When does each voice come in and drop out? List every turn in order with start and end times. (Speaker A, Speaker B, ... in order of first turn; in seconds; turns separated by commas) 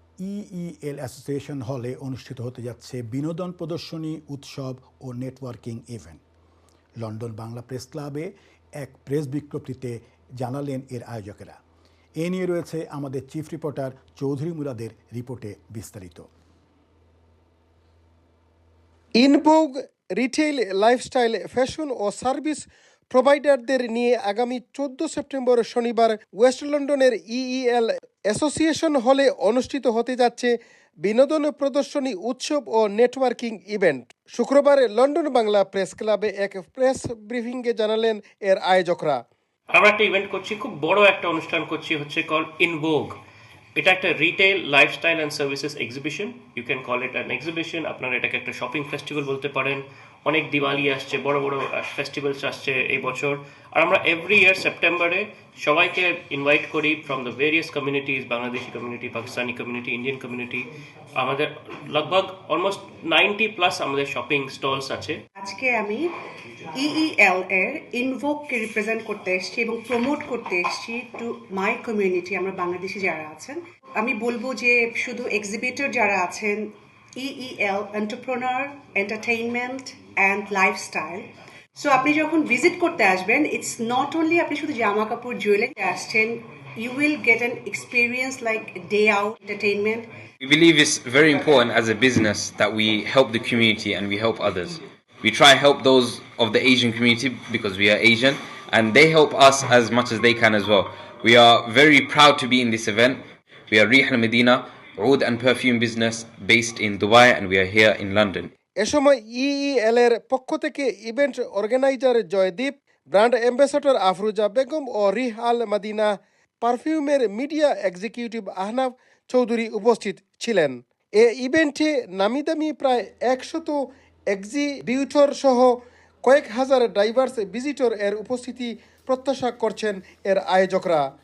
Speaker A: 0.2-6.2, Speaker A: 7.0-11.6, Speaker A: 12.2-16.3, Speaker B: 19.2-39.2, Speaker C: 39.7-43.2, Speaker C: 43.8-65.2, Speaker D: 65.4-66.1, Speaker D: 66.7-90.1, Speaker E: 90.4-108.5, Speaker B: 108.8-131.1